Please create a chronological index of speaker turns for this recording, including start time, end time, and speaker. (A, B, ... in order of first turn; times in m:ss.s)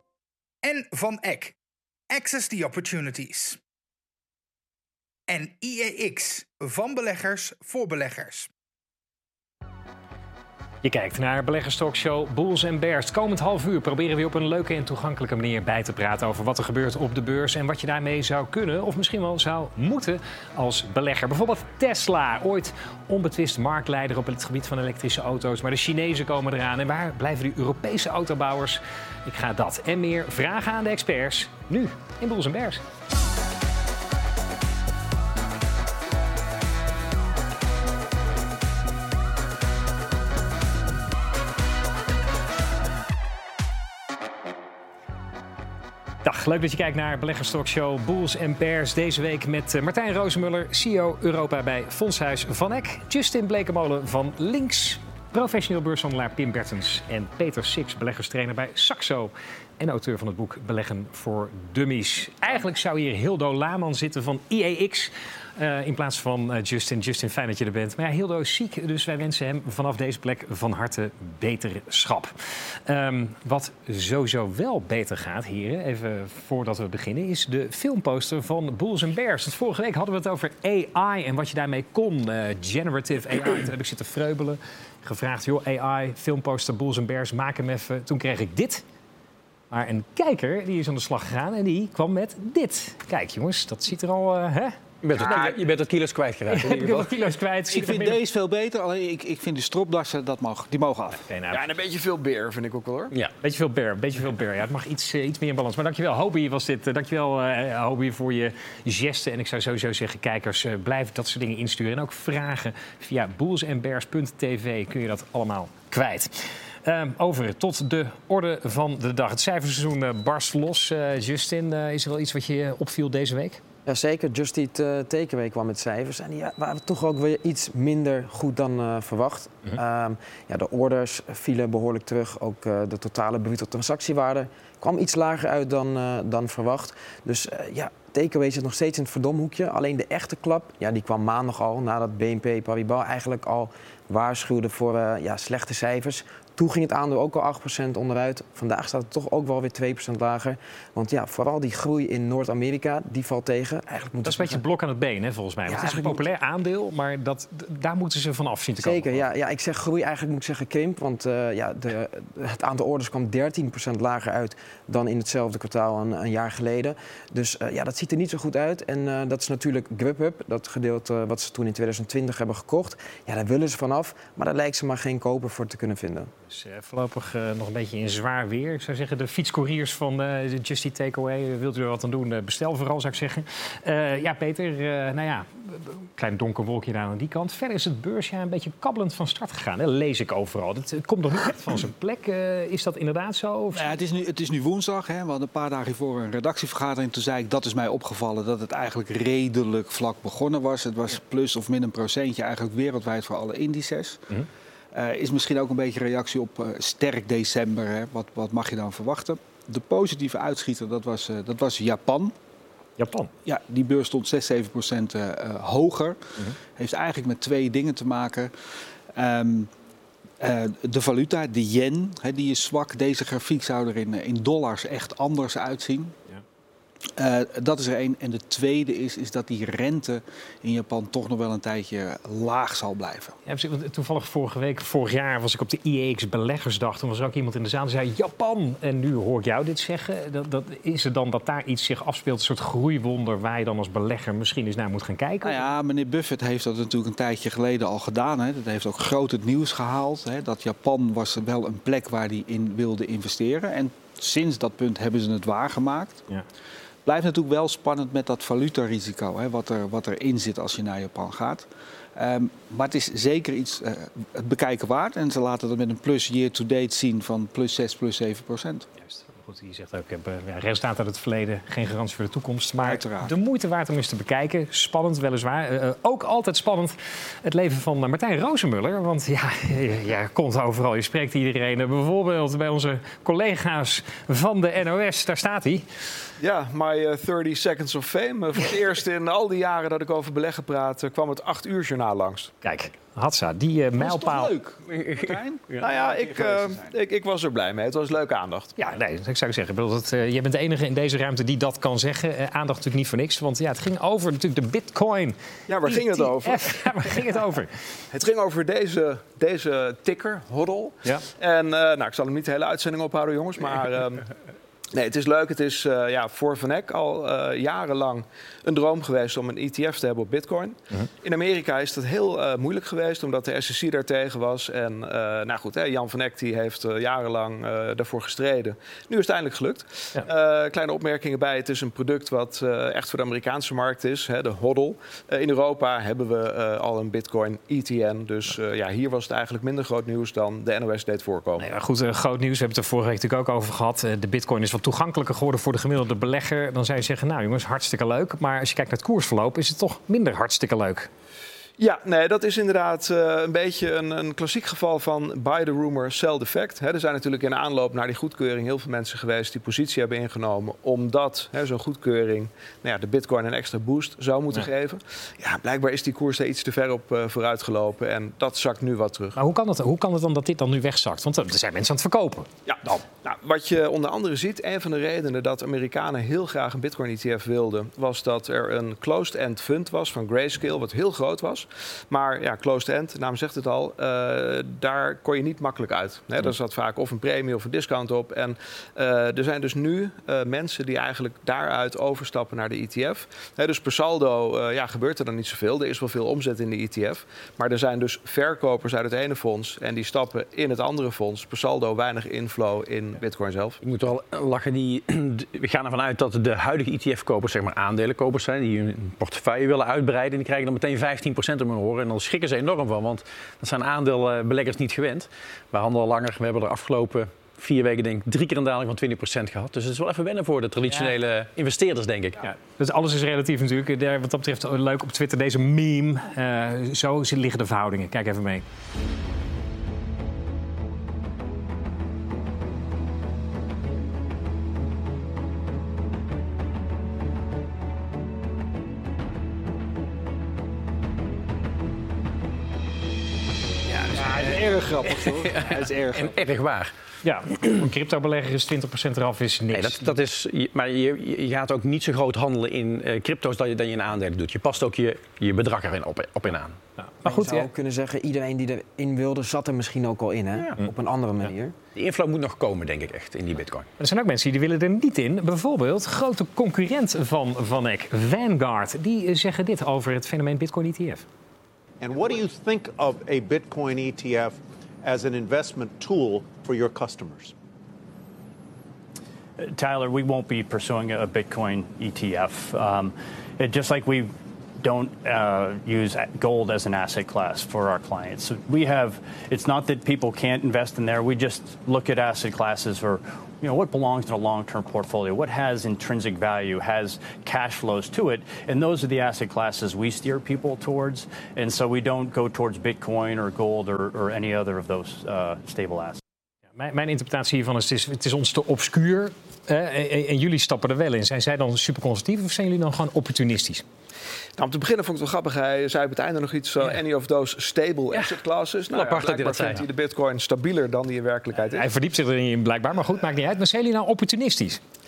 0:00.6-0:01.6 A
0:02.1-0:03.6 A
0:05.3-0:08.5 A
0:10.8-0:32.8 B
0:46.2-1:12.3 B
1:12.9-1:28.8 B
1:29.7-1:35.5 B
1:35.0-1:37.2 C
1:35.2-1:35.5 D
1:36.5-1:38.2 B
1:37.7-1:41.2 E
1:41.3-1:41.6 B
1:41.5-1:43.2 D
1:43.4-2:03.6 B
2:03.9-2:34.6 F
2:34.2-2:39.2 B
2:35.7-2:36.2 F
2:38.8-2:56.3 F
2:56.5-3:13.9 B
3:13.7-3:24.3 E
3:24.9-3:32.4 E
3:33.0-3:33.3 B
3:33.4-3:36.2 E
3:36.8-3:38.5 E
3:39.2-3:39.7 E
3:40.4-3:46.2 E
3:47.2-3:53.4 E
3:53.5-4:05.7 B
4:05.4-4:16.2 E
4:17.0-4:28.9 E
4:29.0-4:45.9 B
4:32.8-4:33.3 E
4:46.4-4:52.5 D
4:52.6-4:54.5 B
4:54.0-4:57.0 E
4:54.9-4:55.9 C
4:55.8-4:58.8 D
4:58.8-5:07.8 B
5:05.7-5:07.1 D
5:08.1-5:14.3 D
5:14.9-5:41.7 D
5:41.6-5:51.1 B
5:51.8-6:09.4 D
6:09.4-6:13.0 B
6:12.7-6:43.8 D
6:43.8-7:02.4 C
7:02.4-7:08.6 B
7:23.9-7:24.2 B
7:24.1-7:26.4 E
7:25.1-7:26.9 C
7:27.2-7:30.1 B
7:29.7-7:36.8 C
7:37.0-7:37.7 B
7:37.2-7:41.8 F
7:42.0-7:43.9 C
7:44.0-7:51.2 B
7:52.0-7:57.5 G
7:59.6-8:26.2 H
8:26.8-8:33.8 B
8:34.6-8:41.9 D
8:38.9-8:39.9 C
8:41.7-8:44.8 B